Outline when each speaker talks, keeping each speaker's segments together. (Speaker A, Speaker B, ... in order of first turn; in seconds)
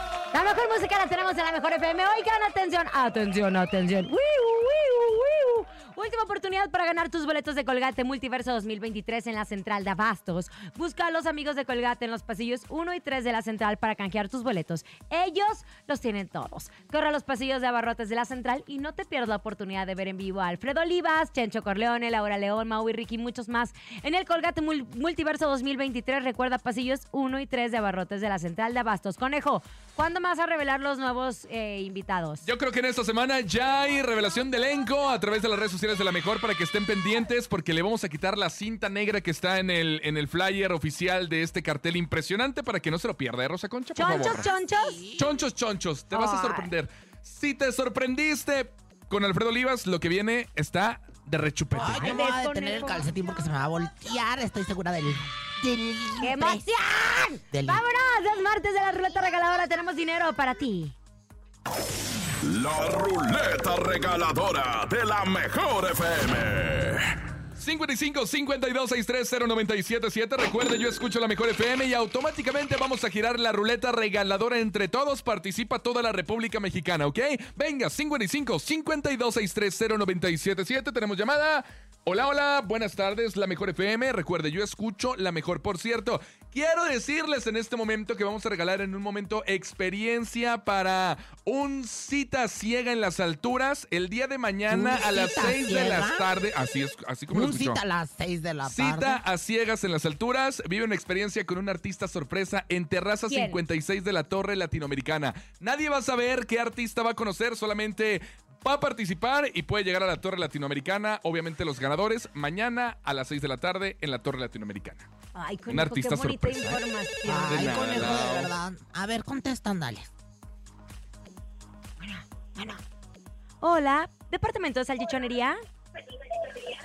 Speaker A: 0.3-32.4, 43.9-45.0, 46.1-46.7, 51.7-53.1, 56.2-60.9, 103.3-103.6, 115.3-118.1, 122.0-122.8, 123.6-125.6
Speaker B: 32.4-44.5, 45.2-52.0, 67.6-97.8, 98.7-115.1, 115.7-116.8, 117.4-118.5
Speaker C: 44.0-45.4, 51.7-57.8, 94.7-96.3, 97.3-99.2, 117.3-120.1
Speaker D: 62.4-67.1